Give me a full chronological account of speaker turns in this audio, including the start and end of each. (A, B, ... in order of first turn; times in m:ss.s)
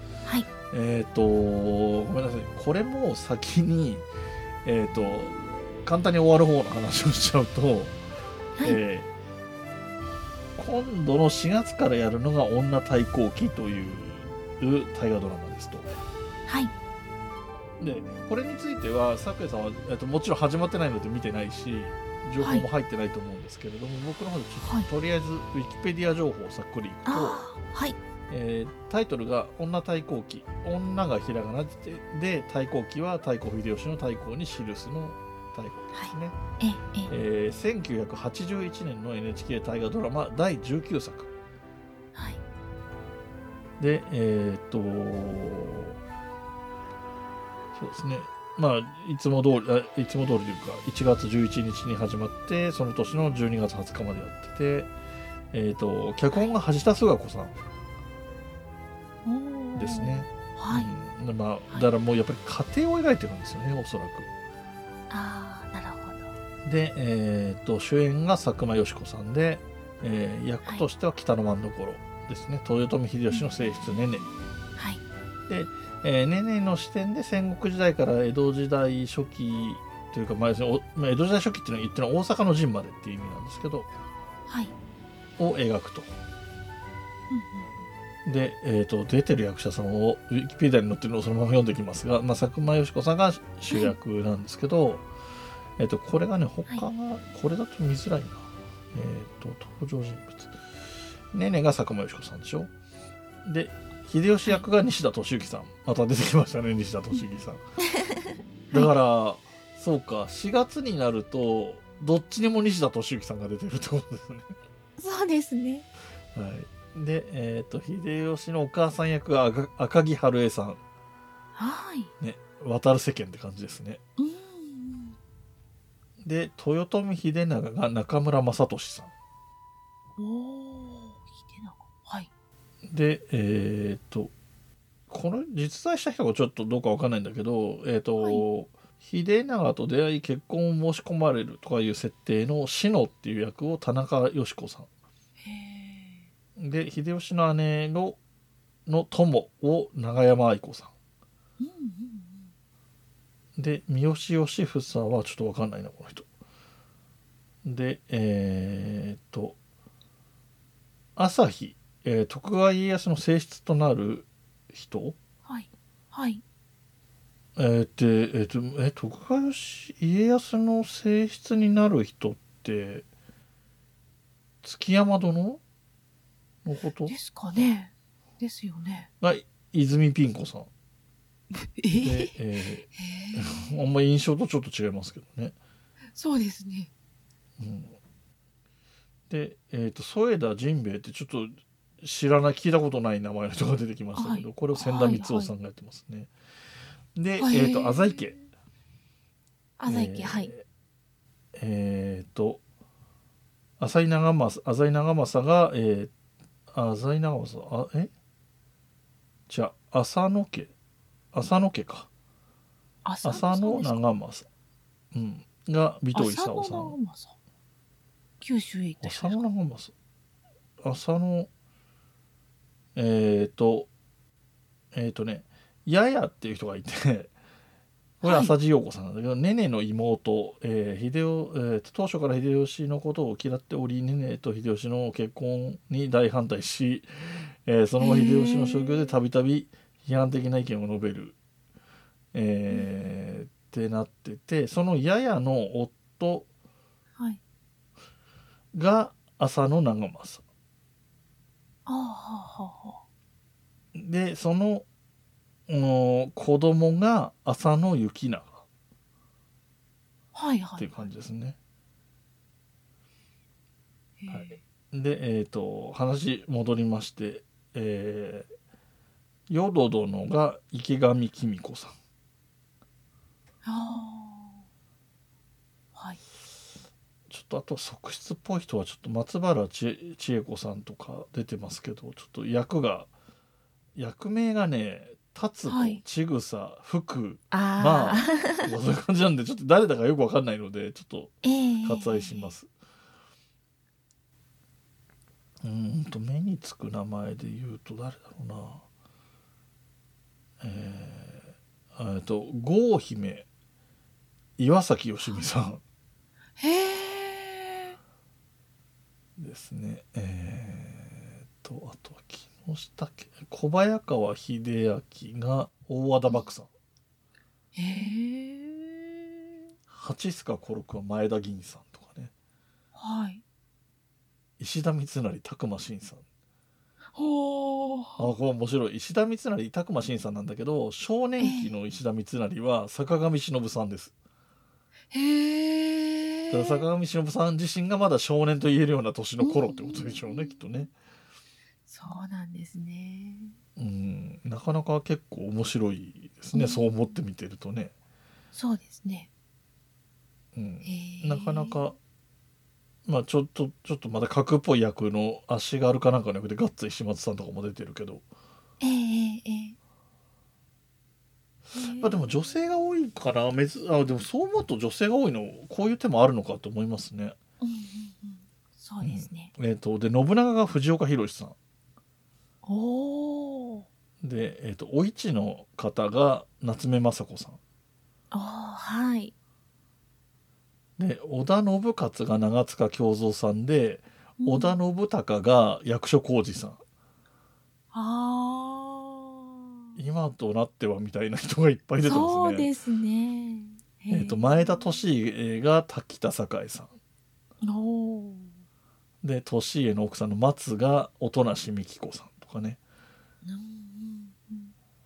0:00.7-0:04.1 A
0:04.6-0:08.0 A
0:08.6-0:09.1 A
0:10.6-0:15.9 A
0:16.5-0:16.7 B
0:17.8-0:27.4 A
0:22.4-0:22.6 B
0:24.6-0:24.9 B
0:27.1-0:28.0 B
0:28.3-0:36.4 A
0:35.9-0:37.1 B
0:37.1-0:41.3 A
0:42.1-0:42.4 B
0:43.8-0:46.0 A
0:47.8-0:54.9 A
0:55.5-0:57.6 A
0:59.2-1:00.9 B
0:59.8-1:04.3 A
1:05.1-1:06.3 B
1:06.6-1:14.3 A
1:14.8-1:15.0 B
1:15.5-1:23.9 A
1:24.5-1:24.7 B
1:25.4-1:26.2 A
1:27.3-1:27.7 B
1:28.2-1:35.1 A
1:35.8-1:40.5 A
1:41.3-1:42.7 A
1:43.4-1:47.6 A
1:47.9-1:48.9 B
1:48.7-1:54.6 A
1:55.0-1:55.9 B
1:56.3-2:00.8 A
2:01.6-2:02.1 B
2:02.2-2:04.0 A
2:04.2-2:05.2 B
2:06.2-2:09.1 A
2:10.2-2:12.3 B
2:12.9-2:14.3 A
2:15.1-2:24.9 A
2:18.2-2:18.4 B
2:25.4-2:26.3 B
2:26.6-2:28.2 A
2:28.9-2:30.9 A
2:31.6-2:32.5 B
2:33.6-2:36.3 A
2:37.6-2:39.6 A
2:41.2-2:45.2 A
2:45.5-2:46.4 B
2:47.6-2:53.1 A
2:54.6-2:55.6 A
2:56.6-2:57.2 A
2:57.1-2:59.1 B
2:59.2-3:00.7 A
3:01.6-3:02.3 B
3:02.0-3:05.6 A
3:03.0-3:03.7 B
3:06.1-3:06.9 B
3:07.6-3:08.0 A
3:09.3-3:16.3 A
3:14.2-3:15.5 B
3:17.2-3:18.4 A
3:17.4-3:18.4 B
3:19.8-3:20.5 B
3:19.9-3:20.6 A
3:21.6-3:22.6 A
3:23.8-3:26.1 A
3:26.7-3:28.1 A
3:29.5-3:30.7 A
3:31.3-3:32.1 A
3:33.0-3:34.0 B
3:33.2-3:34.5 A
3:35.1-3:37.0 A
3:36.1-3:37.4 B
3:38.4-3:39.4 B
3:39.0-3:39.9 A
3:40.8-3:41.5 A
3:43.0-3:43.9 A
3:44.9-3:47.3 A
3:48.2-3:57.1 A
3:48.2-3:48.5 B
3:57.6-4:01.4 A
3:58.0-3:59.1 B
4:02.3-4:06.5 A
4:08.7-4:10.4 A
4:11.9-4:13.0 B
4:14.0-4:14.9 A
4:15.7-4:18.6 A
4:20.3-4:21.1 B
4:20.8-4:21.6 A
4:24.2-4:24.6 B
4:24.3-4:28.5 A
4:29.5-4:31.9 A
4:33.6-4:34.6 B
4:37.3-4:43.1 A
4:44.0-4:52.7 A
4:45.7-4:46.0 B
4:47.5-4:48.7 B
4:51.4-4:52.5 B
4:55.6-4:58.8 A
5:00.6-5:03.5 A
5:04.6-5:05.8 A
5:06.6-5:08.0 B
5:09.4-5:16.7 A
5:17.8-5:19.4 B
5:19.9-5:22.3 A
5:23.0-5:23.4 B
5:24.6-5:26.2 A
5:27.1-5:28.3 B
5:28.2-5:34.1 A
5:31.4-5:31.7 B
5:35.1-5:36.8 B
5:36.5-5:40.9 A
5:39.4-5:40.6 B
5:41.9-5:43.6 B
5:43.8-5:47.9 A
5:46.5-5:47.0 B
5:48.5-5:49.3 B
5:50.6-5:52.0 A
5:50.8-5:51.8 B
5:53.1-5:58.2 A
5:58.8-5:59.8 B
6:01.7-6:02.3 B
6:01.8-6:07.4 A
6:07.6-6:09.5 B
6:09.0-6:11.6 A
6:12.6-6:13.9 B
6:14.2-6:17.6 A
6:18.3-6:19.3 B
6:21.0-6:26.8 A
6:24.4-6:24.8 B
6:27.9-6:30.0 B
6:30.0-6:32.7 A
6:32.0-6:34.9 B
6:34.1-6:36.9 A
6:37.6-6:38.5 B
6:39.2-6:42.8 A
6:43.4-6:44.7 B